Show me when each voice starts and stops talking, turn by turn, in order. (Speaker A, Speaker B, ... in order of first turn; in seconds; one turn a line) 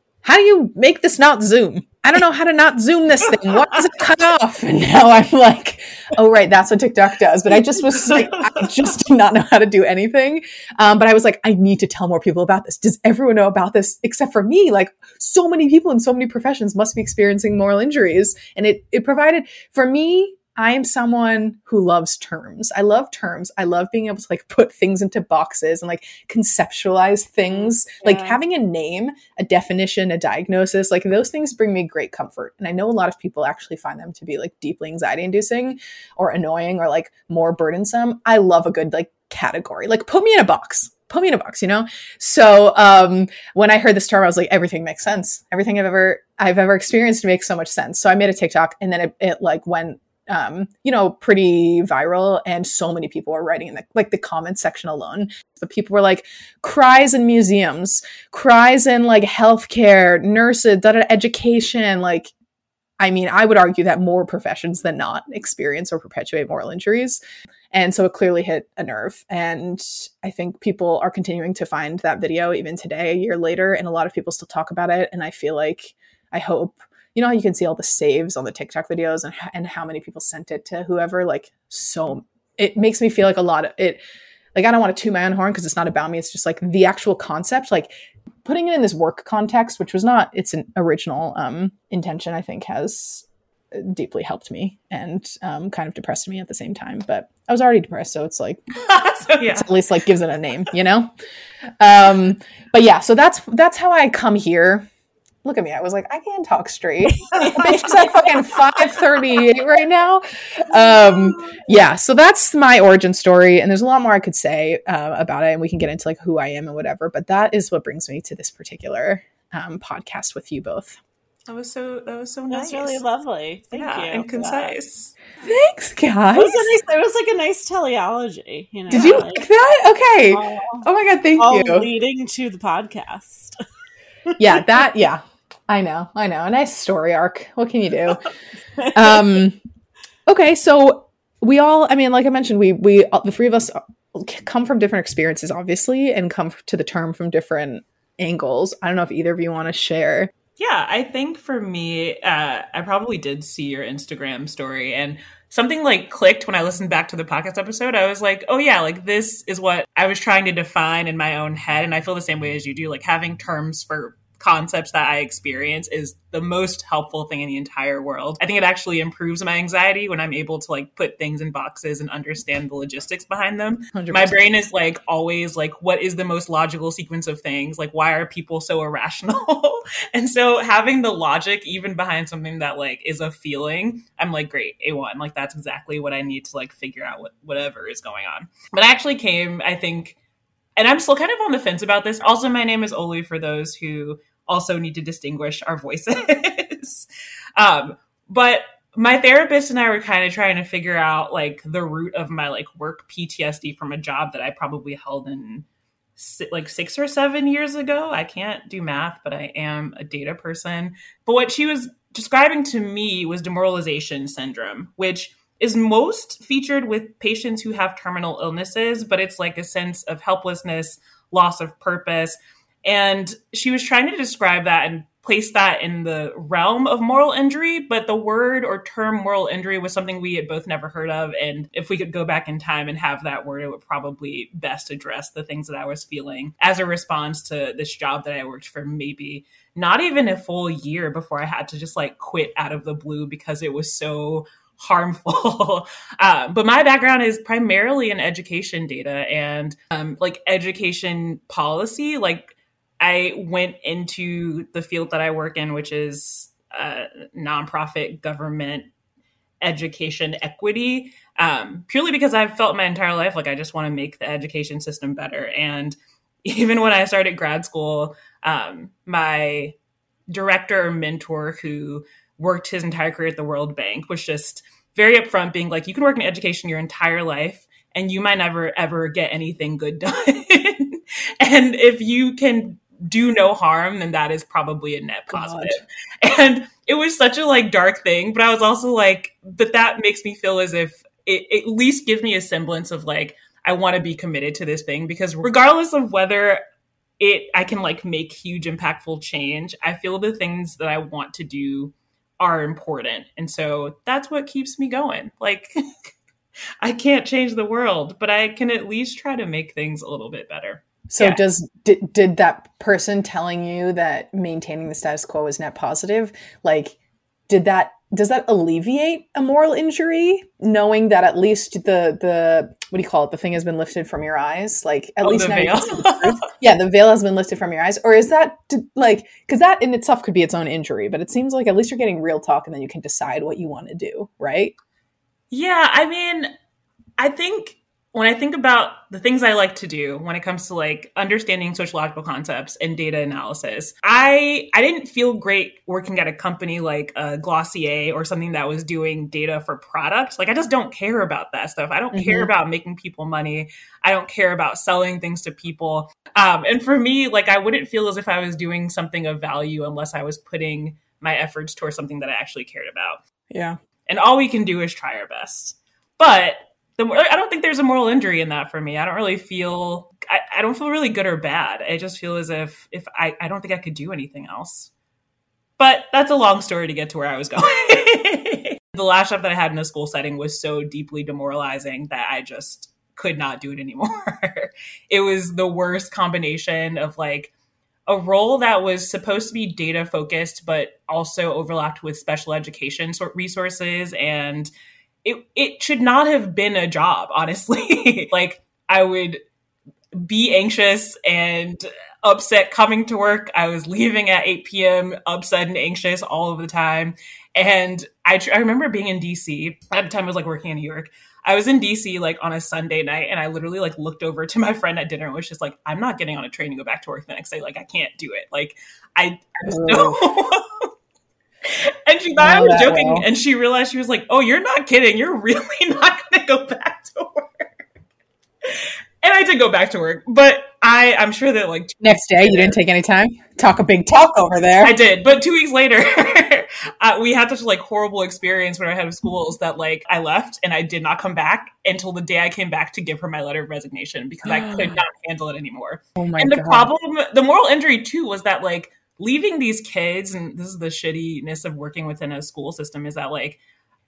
Speaker A: 0.2-62.3
Speaker B: 27.5-28.4
Speaker A: 63.0-67.2
Speaker A: 67.7-84.0
Speaker A: 84.5-87.9
Speaker A: 88.5-98.6
Speaker C: 98.8-99.8
Speaker A: 99.5-101.1
Speaker A: 101.8-104.9
Speaker A: 105.5-121.0
Speaker B: 107.1-108.0
Speaker B: 110.7-111.5
Speaker C: 121.5-123.0
Speaker B: 122.5-124.8
Speaker C: 123.7-125.1
Speaker A: 125.4-126.8
Speaker B: 126.3-129.5
Speaker A: 128.9-131.9
Speaker B: 130.3-130.9
Speaker B: 131.4-133.6
Speaker B: 134.3-134.6
Speaker A: 134.4-138.2
Speaker A: 138.9-139.6
Speaker A: 140.3-150.3
Speaker C: 150.6-190.2
Speaker A: 173.9-174.4
Speaker C: 190.8-197.1
Speaker C: 197.6-205.7
Speaker C: 206.2-258.9
Speaker C: 259.6-269.8
Speaker C: 270.3-296.6
Speaker A: 285.3-285.8
Speaker C: 297.2-305.7
Speaker C: 306.8-311.4
Speaker A: 311.1-317.0
Speaker A: 317.5-334.8
Speaker C: 325.2-326.4
Speaker C: 335.5-336.5
Speaker C: 337.2-363.2
Speaker A: 352.1-352.5
Speaker A: 363.5-363.8
Speaker C: 364.1-374.9
Speaker C: 375.8-387.5
Speaker C: 388.1-394.7
Speaker C: 395.2-399.4
Speaker C: 400.2-420.9
Speaker A: 419.7-420.2
Speaker C: 421.7-427.7
Speaker A: 422.4-423.3
Speaker C: 428.6-432.8
Speaker A: 432.0-434.9
Speaker C: 434.8-453.6
Speaker A: 444.4-445.0
Speaker A: 446.2-446.9